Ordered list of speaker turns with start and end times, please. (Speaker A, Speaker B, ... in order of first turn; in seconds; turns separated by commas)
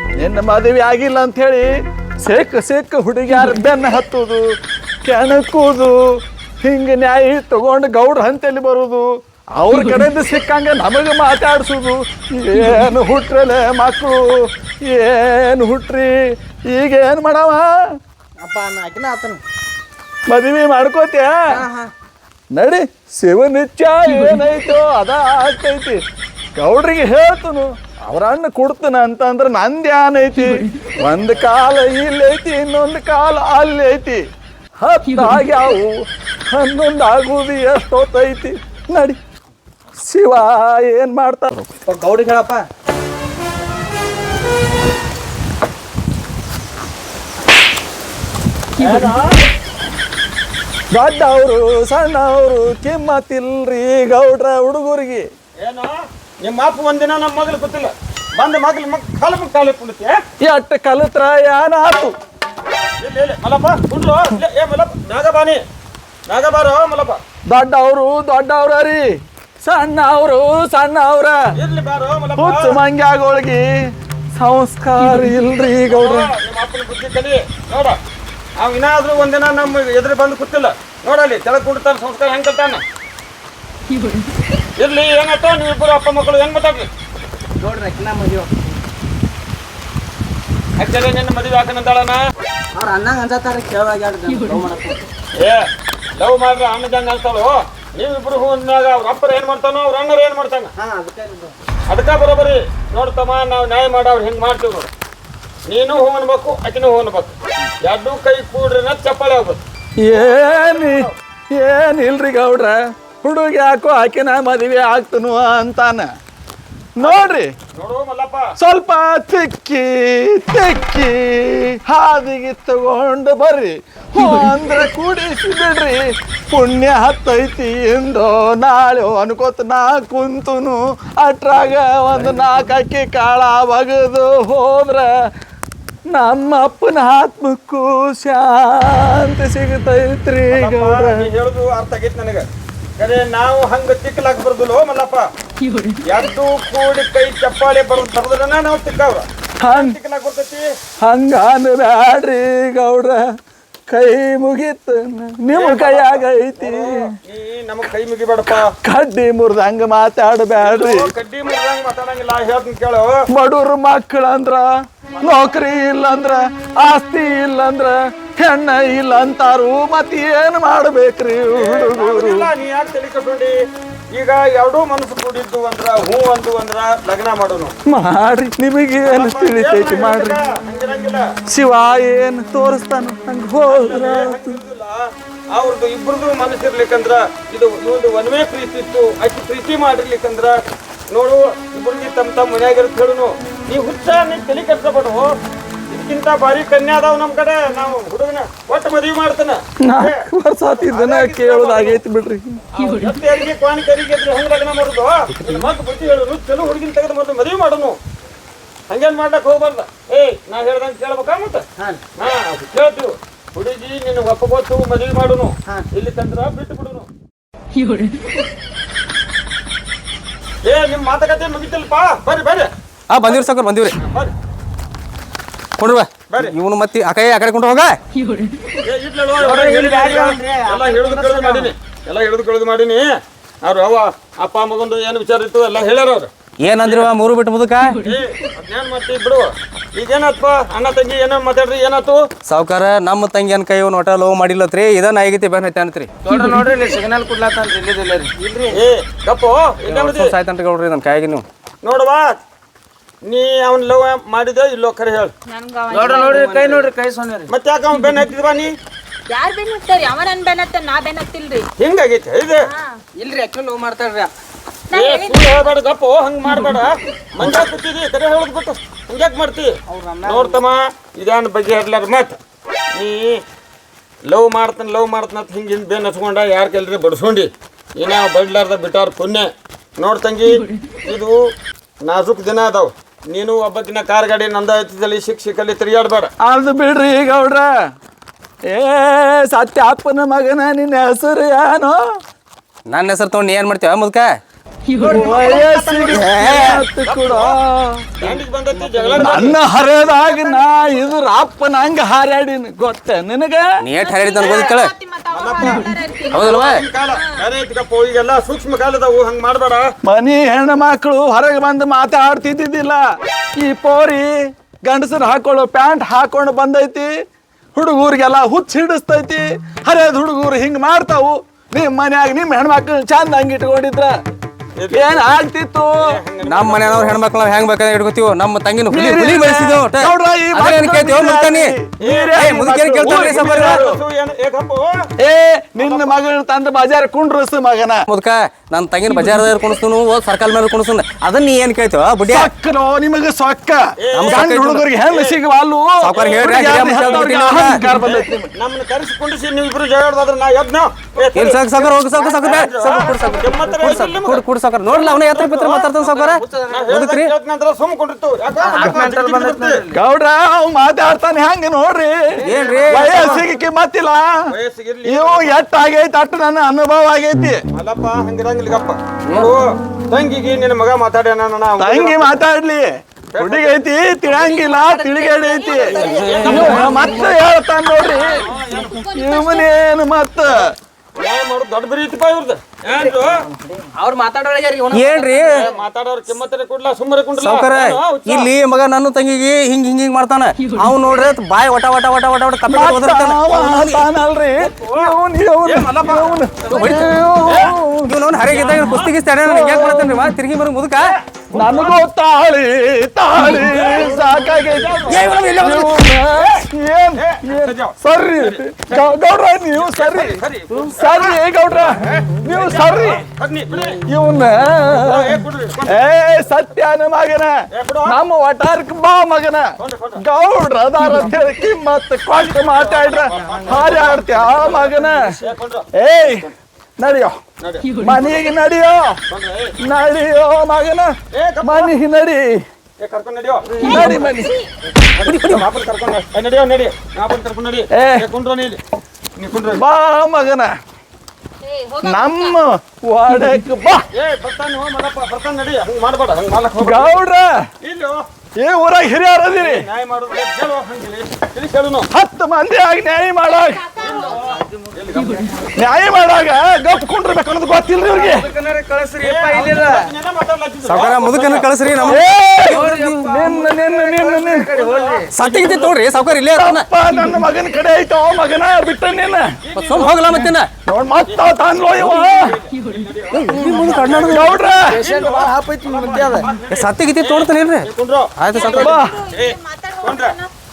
Speaker A: 0.2-1.7, Speaker A: 2.2-4.5, Speaker A: 5.0-6.0, Speaker A: 6.6-14.2, Speaker A: 14.8-16.2, Speaker A: 16.7-17.7, Speaker B: 18.4-19.4, Speaker A: 20.3-21.6, Speaker B: 21.5-21.9, Speaker A: 22.5-26.0, Speaker A: 26.6-34.2, Speaker A: 34.8-35.9, Speaker A: 36.5-39.2, Speaker A: 40.0-41.7, Speaker B: 41.8-42.7, Speaker C: 48.8-49.4, Speaker A: 50.9-55.3, Speaker C: 55.6-60.2, Speaker A: 60.4-62.1, Speaker C: 63.0-65.6, Speaker C: 66.3-67.2, Speaker A: 67.5-69.0, Speaker A: 69.6-71.4, Speaker C: 71.5-72.8, Speaker A: 72.3-73.7, Speaker A: 74.3-76.3, Speaker C: 75.9-78.0, Speaker C: 78.6-82.8, Speaker C: 84.8-86.9, Speaker B: 87.6-88.5, Speaker C: 90.8-92.2, Speaker B: 92.7-95.0, Speaker C: 95.4-100.7, Speaker B: 100.8-101.5, Speaker C: 101.9-104.9, Speaker C: 105.7-111.2, Speaker A: 110.0-116.1, Speaker A: 117.0-117.5, Speaker C: 117.0-118.5, Speaker A: 118.6-135.1, Speaker A: 136.1-141.3, Speaker C: 140.5-142.5, Speaker C: 143.0-145.3, Speaker C: 146.1-150.7, Speaker A: 149.6-150.0, Speaker A: 151.0-153.2, Speaker A: 153.9-157.0, Speaker C: 155.5-158.7, Speaker A: 158.5-161.1, Speaker C: 160.6-163.2, Speaker A: 163.3-164.7, Speaker C: 165.1-165.6, Speaker A: 165.2-172.5, Speaker C: 171.5-173.5, Speaker C: 174.1-177.7, Speaker A: 177.9-180.3, Speaker C: 179.1-181.3, Speaker A: 181.5-184.5, Speaker C: 183.7-190.6, Speaker C: 191.1-195.3, Speaker C: 195.9-202.0, Speaker A: 199.8-202.6, Speaker C: 202.7-208.0, Speaker D: 205.3-205.7, Speaker C: 208.9-211.7, Speaker C: 212.2-217.1, Speaker C: 220.6-222.7, Speaker D: 223.1-224.0, Speaker C: 224.0-224.3, Speaker D: 225.8-228.0, Speaker C: 226.3-226.5, Speaker C: 228.8-233.1, Speaker B: 229.4-231.7, Speaker C: 233.6-236.3, Speaker D: 236.6-238.0, Speaker C: 236.8-237.1, Speaker C: 238.0-242.2, Speaker D: 242.5-246.1, Speaker B: 246.3-248.8, Speaker C: 248.7-250.3, Speaker D: 249.8-251.4, Speaker C: 251.8-252.4, Speaker C: 253.3-255.3, Speaker E: 255.5-256.5, Speaker B: 255.9-257.5, Speaker C: 257.5-258.8, Speaker E: 259.3-261.7, Speaker C: 261.8-262.6, Speaker E: 262.7-262.9, Speaker B: 263.1-264.3, Speaker E: 264.9-265.8, Speaker C: 264.9-272.4, Speaker B: 269.9-270.6, Speaker C: 272.9-273.4, Speaker C: 274.3-281.4, Speaker C: 282.1-286.3, Speaker A: 286.4-287.7, Speaker A: 288.7-292.0, Speaker D: 292.9-294.3, Speaker A: 295.0-298.1, Speaker C: 295.1-297.6, Speaker B: 295.1-296.5, Speaker C: 298.2-299.6, Speaker B: 298.2-299.4, Speaker A: 299.1-303.8, Speaker E: 299.9-301.1, Speaker D: 303.8-304.9, Speaker E: 304.0-306.4, Speaker C: 305.3-309.9, Speaker D: 306.3-306.8, Speaker E: 307.1-307.4, Speaker A: 310.0-313.0, Speaker A: 313.6-314.3, Speaker A: 314.9-317.1, Speaker A: 317.8-324.1, Speaker C: 324.8-325.2, Speaker A: 324.9-326.1, Speaker C: 326.0-327.4, Speaker D: 326.4-331.8, Speaker A: 328.9-334.0, Speaker C: 332.0-332.5, Speaker D: 332.4-333.8, Speaker C: 333.0-335.0, Speaker A: 335.2-338.0, Speaker C: 335.8-336.1, Speaker D: 338.1-342.5, Speaker A: 342.3-348.5, Speaker C: 344.0-344.5, Speaker D: 344.1-344.9, Speaker C: 345.1-345.4, Speaker D: 346.0-347.8, Speaker C: 346.1-347.3, Speaker C: 347.9-359.8, Speaker D: 351.3-357.3, Speaker B: 356.2-356.9, Speaker B: 358.6-360.0, Speaker A: 359.9-364.3, Speaker D: 362.4-363.4, Speaker B: 362.5-362.8, Speaker C: 362.7-363.5, Speaker C: 364.5-365.6, Speaker A: 365.1-367.6, Speaker C: 367.7-372.4, Speaker A: 371.8-380.8, Speaker C: 373.3-373.8, Speaker E: 374.4-376.3, Speaker B: 375.8-377.0, Speaker D: 375.9-377.3, Speaker C: 376.1-377.0, Speaker E: 378.0-379.7, Speaker C: 378.2-378.8, Speaker C: 381.1-383.4, Speaker B: 383.8-385.7, Speaker D: 384.9-385.7, Speaker C: 385.5-388.5, Speaker D: 387.4-394.1, Speaker A: 392.7-398.1, Speaker C: 394.6-395.1, Speaker C: 395.6-396.9, Speaker D: 396.7-401.1, Speaker C: 398.5-399.1, Speaker A: 399.4-400.2, Speaker C: 401.1-402.0, Speaker A: 401.5-413.2, Speaker C: 403.4-405.4, Speaker D: 405.1-406.1, Speaker C: 406.3-406.6, Speaker C: 407.2-409.2, Speaker C: 409.7-414.0, Speaker A: 414.1-415.3, Speaker C: 414.9-416.0, Speaker A: 415.9-417.5, Speaker C: 417.7-418.1, Speaker A: 418.0-425.3, Speaker C: 419.8-420.2, Speaker C: 422.3-426.5, Speaker B: 423.4-423.8, Speaker A: 426.0-426.4, Speaker A: 427.0-427.4, Speaker C: 427.6-428.0, Speaker A: 428.0-429.2, Speaker C: 429.3-429.8, Speaker A: 429.8-432.6, Speaker C: 431.3-431.9, Speaker C: 433.0-434.1, Speaker A: 433.8-434.5, Speaker E: 433.8-434.7, Speaker C: 435.0-438.8, Speaker D: 435.2-435.6, Speaker A: 437.9-438.2, Speaker C: 439.4-439.8, Speaker A: 439.7-440.7, Speaker E: 441.6-442.6, Speaker A: 442.0-444.0, Speaker C: 444.1-447.1, Speaker A: 446.8-447.5, Speaker C: 447.8-448.2, Speaker A: 448.6-449.8, Speaker C: 449.6-452.1, Speaker A: 452.1-453.9, Speaker E: 453.8-454.4, Speaker C: 454.0-455.6, Speaker B: 454.4-454.9, Speaker A: 455.8-458.5, Speaker B: 458.1-460.1, Speaker C: 459.2-462.2, Speaker D: 460.8-463.3, Speaker A: 462.1-464.8, Speaker B: 462.7-465.3, Speaker C: 464.7-465.9, Speaker D: 465.3-466.9, Speaker A: 466.6-469.5, Speaker C: 469.6-470.5, Speaker D: 469.8-470.7, Speaker A: 470.9-472.5, Speaker C: 471.2-480.4, Speaker D: 473.3-474.5, Speaker B: 473.5-473.9, Speaker A: 474.3-475.1, Speaker B: 474.8-476.5, Speaker D: 476.7-478.9, Speaker E: 478.5-480.5, Speaker A: 478.7-479.2